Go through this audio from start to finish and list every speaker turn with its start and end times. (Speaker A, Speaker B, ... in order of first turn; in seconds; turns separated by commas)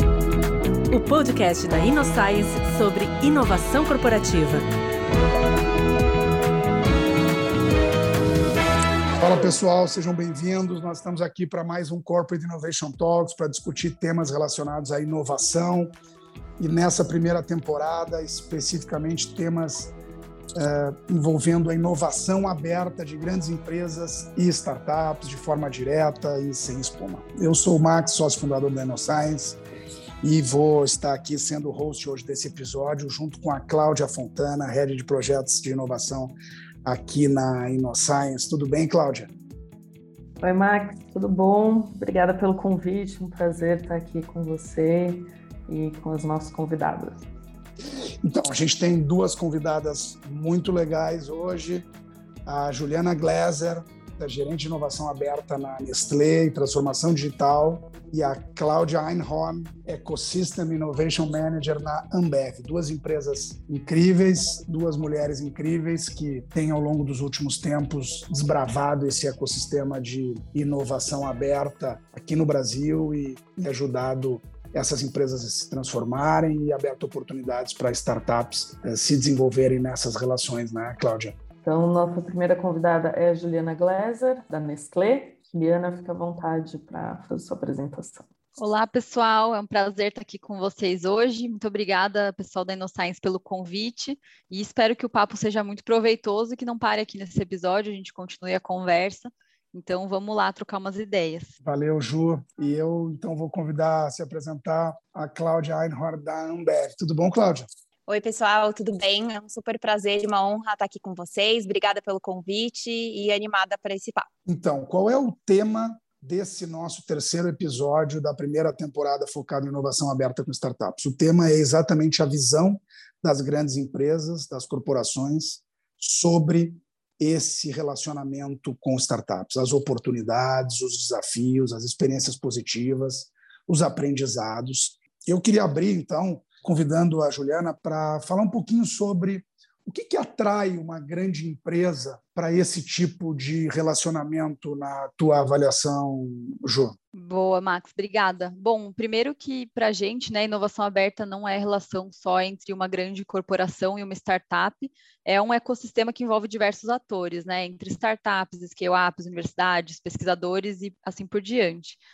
Speaker A: 0.9-4.6, Speaker B: 9.1-15.9, Speaker B: 16.6-19.9, Speaker B: 20.5-29.6, Speaker B: 30.2-39.3, Speaker C: 40.4-47.2, Speaker B: 48.2-51.9, Speaker B: 52.5-81.3, Speaker C: 81.6-88.2, Speaker D: 88.6-101.5, Speaker B: 101.6-107.7, Speaker E: 108.1-114.3, Speaker B: 114.5-146.9, Speaker D: 147.1-162.0